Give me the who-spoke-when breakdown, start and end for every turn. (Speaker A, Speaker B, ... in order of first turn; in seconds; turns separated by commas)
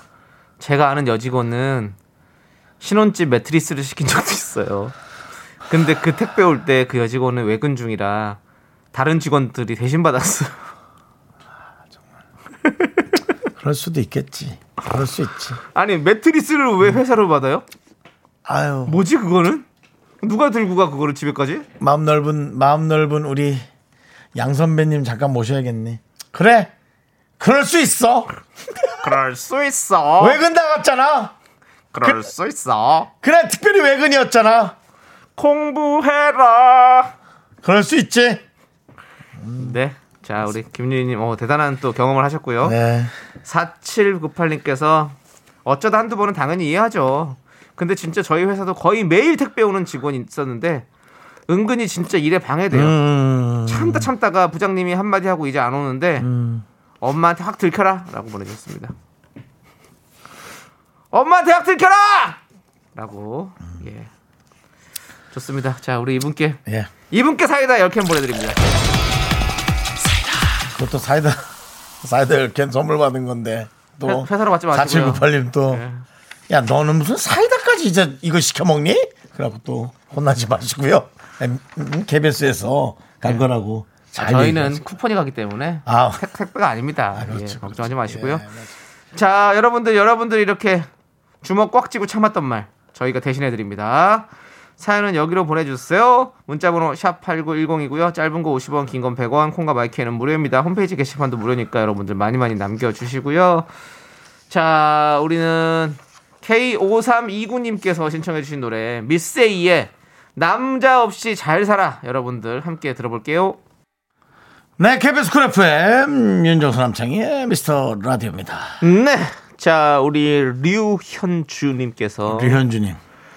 Speaker A: 0.6-1.9, Speaker A: 2.8-4.9, Speaker A: 5.7-8.4, Speaker A: 8.9-10.6, Speaker B: 13.6-15.6, Speaker A: 15.7-17.6, Speaker B: 18.4-19.0, Speaker A: 18.9-19.6, Speaker A: 20.2-21.6, Speaker B: 21.8-23.6, Speaker B: 24.3-26.7, Speaker B: 27.4-29.0, Speaker A: 29.0-30.4, Speaker B: 30.2-31.3, Speaker A: 31.9-33.1, Speaker B: 32.0-32.3, Speaker B: 33.2-34.7, Speaker A: 35.4-37.1, Speaker B: 37.6-38.4, Speaker B: 39.4-39.7, Speaker A: 39.6-42.8, Speaker B: 42.6-43.1, Speaker A: 43.4-50.9, Speaker A: 51.5-52.9, Speaker B: 52.7-54.1, Speaker A: 53.6-56.3, Speaker B: 56.2-56.6, Speaker A: 57.0-58.9, Speaker A: 61.1-62.4, Speaker A: 62.9-64.1, Speaker A: 65.3-68.7, Speaker B: 66.7-66.9, Speaker B: 70.7-71.5, Speaker B: 72.0-75.8, Speaker A: 74.0-76.0, Speaker B: 76.5-84.8, Speaker A: 84.2-88.5, Speaker B: 85.8-86.2, Speaker B: 87.1-88.7, Speaker A: 89.1-90.9, Speaker A: 91.4-103.7, Speaker A: 104.5-113.6, Speaker B: 114.8-118.8, Speaker A: 118.8-122.6, Speaker B: 122.3-123.0